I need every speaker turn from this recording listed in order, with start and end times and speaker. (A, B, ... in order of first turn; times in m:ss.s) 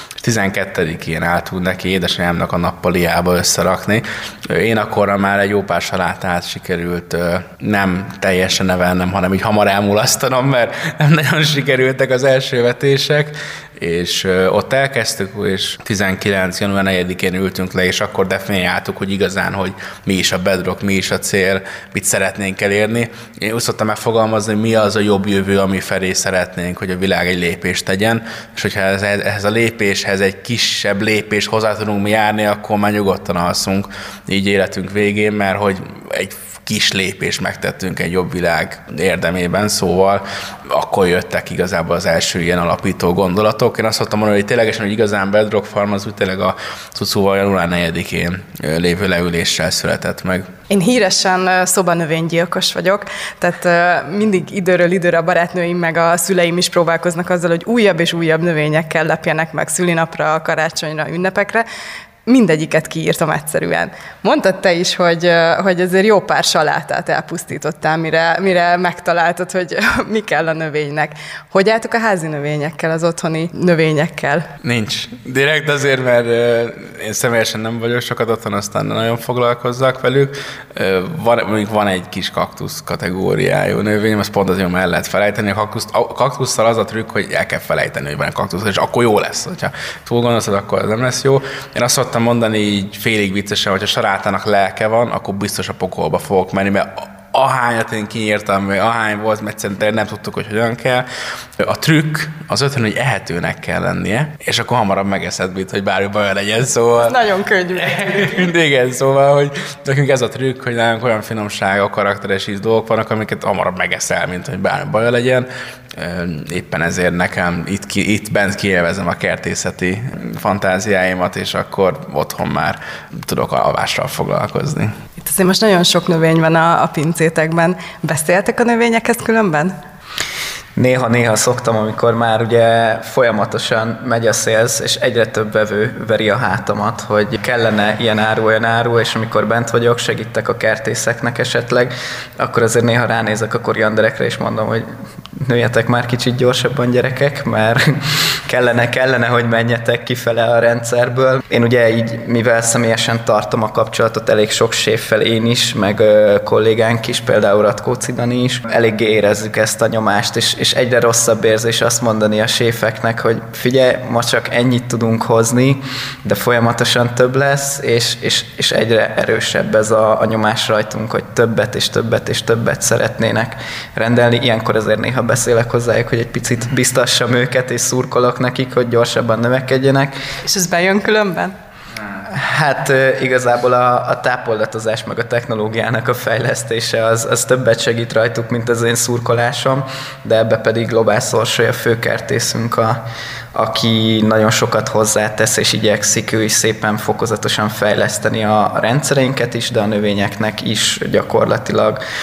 0:00.2-0:50.5 A
0:50.7-1:01.6 B
1:02.2-1:14.5 B
1:14.6-1:41.0 A
1:41.6-1:47.2 A
1:47.0-1:48.5 B
1:47.8-2:04.9 A
2:05.2-2:09.8 B
2:10.8-3:00.1 C
3:00.4-3:01.5 B
3:02.2-3:13.0 C
3:13.5-3:22.0 C